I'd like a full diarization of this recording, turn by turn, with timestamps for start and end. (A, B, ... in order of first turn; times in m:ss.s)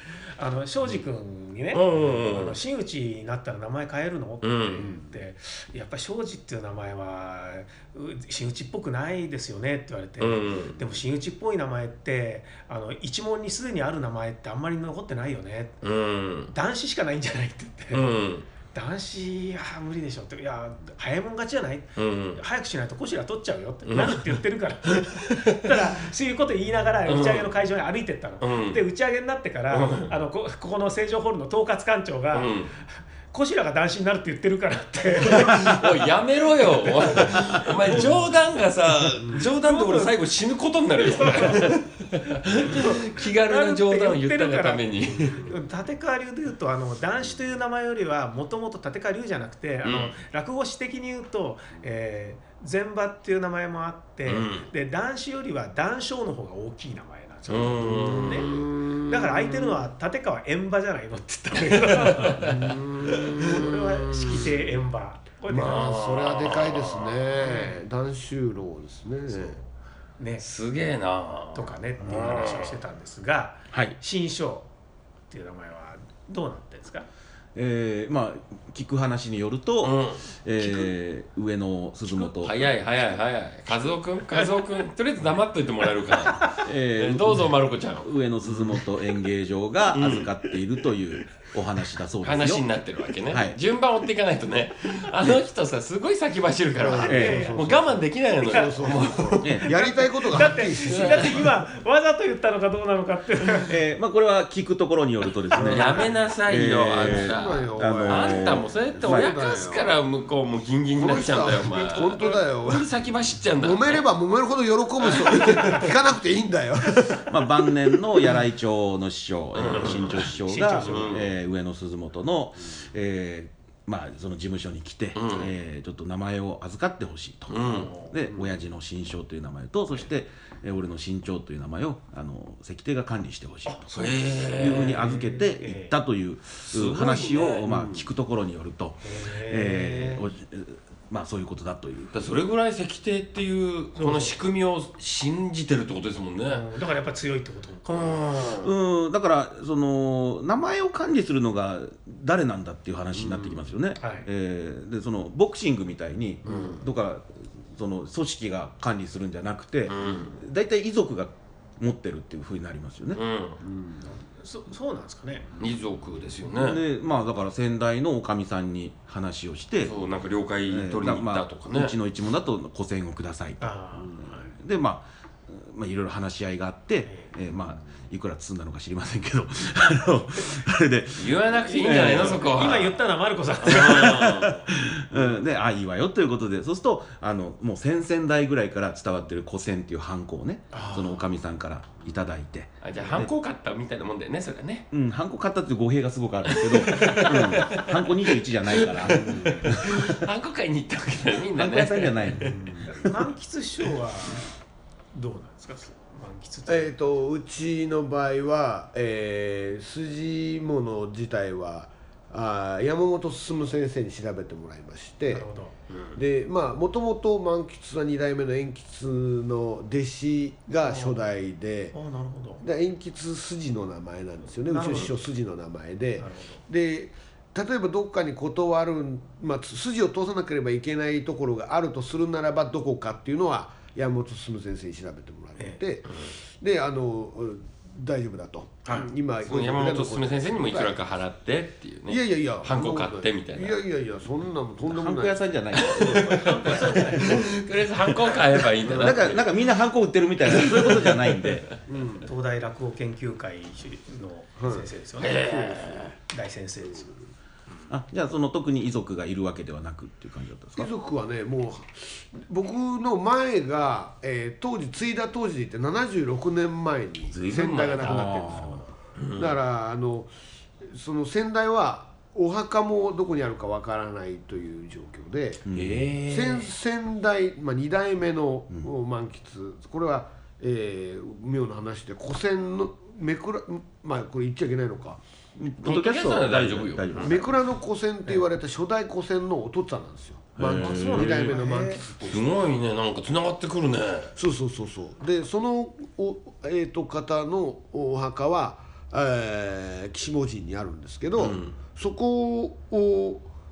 0:00.4-0:15.8 A
0:01.7-0:02.6 B
0:04.4-0:04.9 B
0:04.8-0:05.2 C
0:10.2-0:10.8 B
0:10.4-0:10.8 C
0:15.8-0:16.5 B
0:16.5-0:18.1 A
0:17.9-0:18.4 B
0:18.7-0:32.6 A
0:22.0-0:22.4 B
0:23.9-0:24.4 B
0:24.9-0:25.9 B
0:27.1-0:27.5 B
0:28.4-0:28.8 B
0:29.7-0:30.1 B
0:32.3-0:32.7 B
0:33.3-0:35.8 A
0:35.2-0:45.5 B
0:37.0-0:38.3 A
0:39.6-0:40.2 A
0:41.0-0:41.8 A
0:42.7-1:02.5 A
0:49.8-0:50.2 B
0:54.3-0:54.7 B
0:57.5-0:58.6 B
0:57.8-0:59.8 C
1:01.6-1:02.7 B
1:02.4-1:04.5 C
1:03.1-1:05.9 A
1:05.5-1:09.6 C
1:05.6-1:07.3 B
1:07.4-1:07.8 A
1:09.3-1:09.6 A
1:10.2-1:10.4 A
1:10.4-1:12.8 B
1:11.5-1:14.7 A
1:15.3-1:17.1 A
1:17.5-1:22.7 D
1:19.8-1:20.2 B
1:22.1-1:29.2 B
1:26.5-1:32.6 D
1:29.9-1:30.6 B
1:32.2-1:39.6 B
1:33.3-1:33.6 D
1:36.8-1:41.5 C
1:37.0-1:37.7 A
1:37.1-1:37.5 D
1:38.5-1:38.9 A
1:39.4-1:39.7 D
1:39.6-1:43.7 A
1:40.8-1:41.4 B
1:43.7-1:49.4 D
1:45.5-1:46.1 C
1:45.6-1:54.0 B
1:47.0-1:50.0 C
1:50.9-1:52.9 C
1:53.6-1:57.4 C
1:55.0-1:55.9 B
1:57.2-2:22.1 D
1:59.5-2:01.3 B
2:00.1-2:01.2 A
2:05.1-2:05.5 B
2:07.5-2:07.9 B
2:07.7-2:08.2 A
2:08.3-2:08.5 C
2:13.9-2:15.2 B
2:14.6-2:16.0 A
2:16.7-2:17.6 B
2:17.6-2:18.0 C
2:19.0-2:20.2 A
2:22.1-2:26.6 B
2:24.0-2:24.4 A
2:26.5-2:28.6 A
2:28.0-2:28.6 B
2:28.6-2:43.2 D
2:33.2-2:33.6 C
2:34.0-2:34.2 A
2:36.4-2:36.8 C
2:39.9-2:40.4 B
2:43.1-2:43.6 B
2:43.6-2:44.0 C
2:44.0-2:45.5 A
2:45.6-2:46.8 B
2:46.6-2:49.9 D
2:49.8-2:51.9 B
2:50.7-3:02.6 D
2:53.6-2:54.5 A
2:57.0-2:57.3 A
3:01.2-3:03.0 B
3:01.8-3:04.2 A
3:03.6-3:04.7 B
3:03.6-3:13.3 D
3:10.7-3:11.2 A
3:12.8-3:14.9 B
3:14.9-3:20.1 D
3:16.5-3:22.6 B
3:19.1-3:19.7 C
3:21.5-3:22.6 D
3:22.4-3:22.9 C
3:22.8-3:24.5 A
3:25.1-3:26.9 A
3:26.7-3:35.5 C
3:35.3-3:35.7 A
3:35.9-3:36.2 B
3:36.1-3:42.0 C
3:40.8-3:41.2 A
3:41.9-3:42.6 A
3:42.6-4:00.9 C
3:44.7-3:45.1 A
3:46.2-3:46.6 A
3:58.9-4:03.8 B
4:02.1-4:05.4 C
4:04.8-4:07.5 D
4:05.7-4:09.5 B
4:06.4-4:07.3 A
4:08.8-4:09.3 C
4:09.0-4:11.7 D
4:10.5-4:11.6 B
4:11.9-4:12.3 C
4:12.2-4:17.2 A
4:14.6-4:14.9 C
4:15.2-4:16.1 B
4:17.9-4:20.9 D
4:20.8-4:30.3 C
4:27.3-4:28.8 D
4:27.4-4:28.3 B
4:28.2-4:28.7 A
4:29.2-4:29.6 B
4:30.8-4:35.6 C
4:35.7-4:36.6 D
4:35.7-4:36.6 B
4:36.3-4:45.2 C
4:45.6-4:47.4 D
4:45.8-4:47.4 B
4:47.2-4:52.7 C
4:50.6-4:51.5 D
4:50.7-4:54.3 B
4:51.2-4:52.0 A
4:54.4-5:03.5 C
5:01.4-5:01.8 B